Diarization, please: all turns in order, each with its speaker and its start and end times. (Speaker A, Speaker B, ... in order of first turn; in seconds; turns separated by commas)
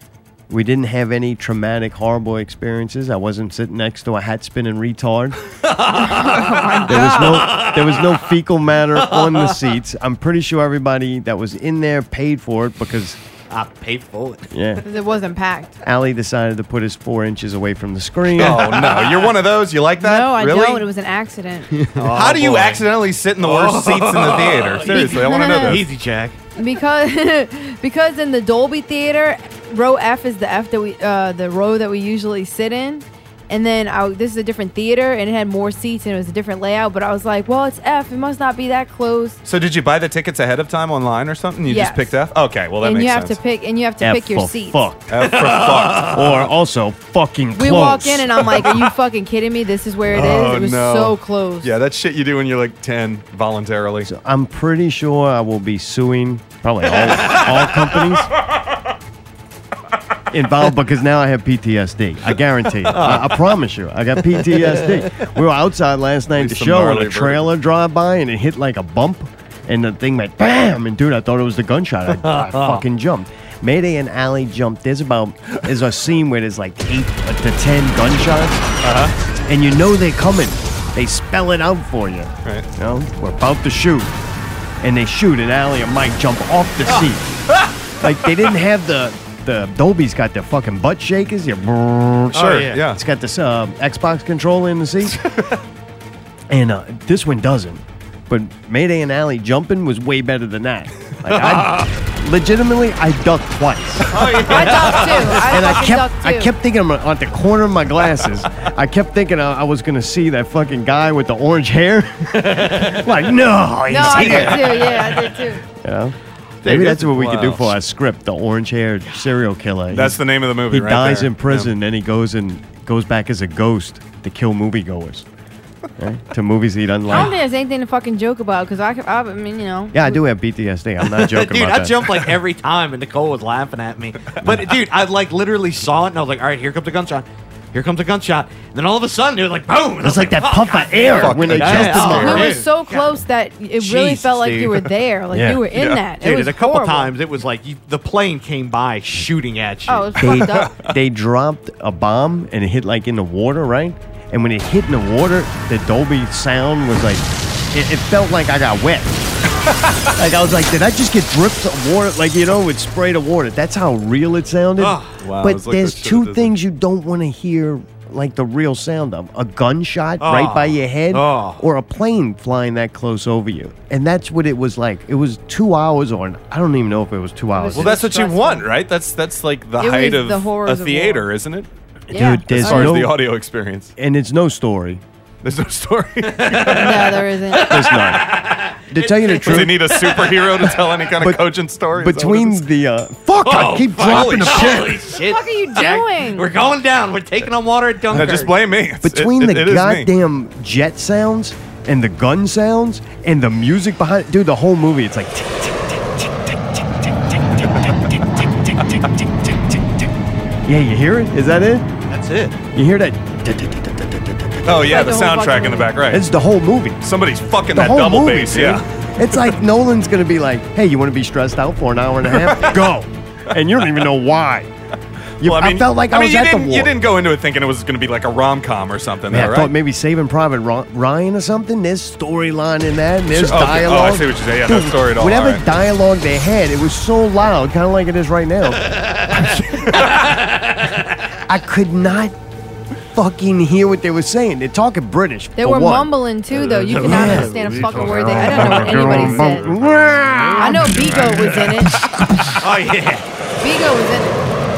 Speaker A: 0.5-5.4, Speaker B: 5.7-8.1, Speaker C: 6.0-7.4, Speaker A: 6.8-13.2, Speaker B: 9.0-9.7, Speaker B: 13.5-14.8, Speaker A: 14.5-14.8, Speaker C: 14.8-15.8, Speaker A: 15.8-19.0, Speaker D: 18.4-20.9, Speaker B: 18.4-19.3, Speaker C: 20.0-21.7, Speaker B: 21.9-22.8, Speaker D: 22.1-25.9, Speaker B: 23.4-26.4, Speaker C: 24.9-25.8, Speaker C: 26.6-39.4, Speaker D: 39.4-43.4, Speaker C: 41.7-42.1, Speaker C: 42.8-44.9, Speaker A: 44.0-45.1, Speaker D: 45.1-46.4, Speaker B: 45.3-46.2, Speaker A: 46.0-48.5, Speaker C: 47.5-51.7, Speaker D: 50.1-54.1, Speaker A: 54.0-58.3, Speaker A: 60.3-78.6, Speaker B: 62.9-63.4, Speaker B: 64.3-65.0, Speaker D: 66.4-67.5, Speaker B: 72.1-72.8, Speaker D: 78.8-79.1, Speaker A: 79.5-84.1, Speaker A: 84.8-87.3, Speaker A: 88.0-95.2, Speaker B: 92.3-92.8, Speaker D: 92.3-93.0, Speaker A: 96.5-115.1, Speaker B: 101.3-101.9, Speaker B: 104.1-105.5, Speaker C: 104.5-106.5, Speaker B: 112.4-113.0, Speaker C: 113.9-115.6, Speaker B: 114.0-114.9, Speaker A: 115.7-125.2, Speaker B: 116.6-117.0, Speaker D: 117.0-117.7, Speaker D: 119.9-121.7, Speaker A: 126.0-127.4, Speaker C: 127.1-130.2, Speaker A: 129.9-132.3, Speaker B: 131.1-143.2, Speaker A: 134.4-134.8, Speaker A: 140.0-142.6, Speaker D: 141.1-142.5, Speaker C: 141.9-147.1, Speaker B: 143.8-144.9, Speaker A: 145.3-145.6, Speaker D: 145.7-146.0, Speaker B: 146.2-150.4, Speaker C: 149.9-150.7, Speaker A: 150.2-159.2, Speaker D: 150.6-150.9, Speaker A: 160.1-178.0, Speaker B: 164.8-165.2, Speaker D: 165.2-166.5, Speaker B: 170.2-171.6, Speaker C: 177.5-178.7, Speaker D: 177.7-181.7, Speaker C: 179.8-181.2, Speaker A: 182.1-183.2, Speaker C: 182.1-183.0, Speaker D: 182.5-183.9, Speaker A: 184.0-185.0, Speaker D: 185.4-187.1, Speaker B: 186.3-189.8, Speaker C: 186.7-187.9, Speaker A: 187.6-195.0, Speaker D: 189.4-192.7, Speaker B: 193.4-198.5, Speaker D: 194.0-194.8, Speaker C: 195.0-196.5, Speaker D: 198.1-200.1, Speaker A: 199.0-209.8, Speaker A: 210.6-211.9, Speaker B: 212.1-212.6, Speaker A: 212.7-214.9, Speaker D: 214.6-216.2, Speaker C: 214.8-215.9, Speaker A: 216.1-217.0, Speaker D: 217.0-218.8, Speaker A: 217.7-224.7, Speaker D: 222.3-222.9, Speaker D: 225.4-229.7, Speaker A: 225.4-226.9, Speaker A: 229.3-239.6, Speaker D: 233.3-235.6, Speaker B: 238.8-241.4, Speaker A: 241.5-242.3, Speaker A: 243.1-246.1, Speaker C: 245.6-249.7, Speaker B: 246.5-249.4, Speaker A: 247.0-251.6, Speaker C: 250.5-251.9, Speaker B: 252.6-253.3, Speaker C: 253.6-254.4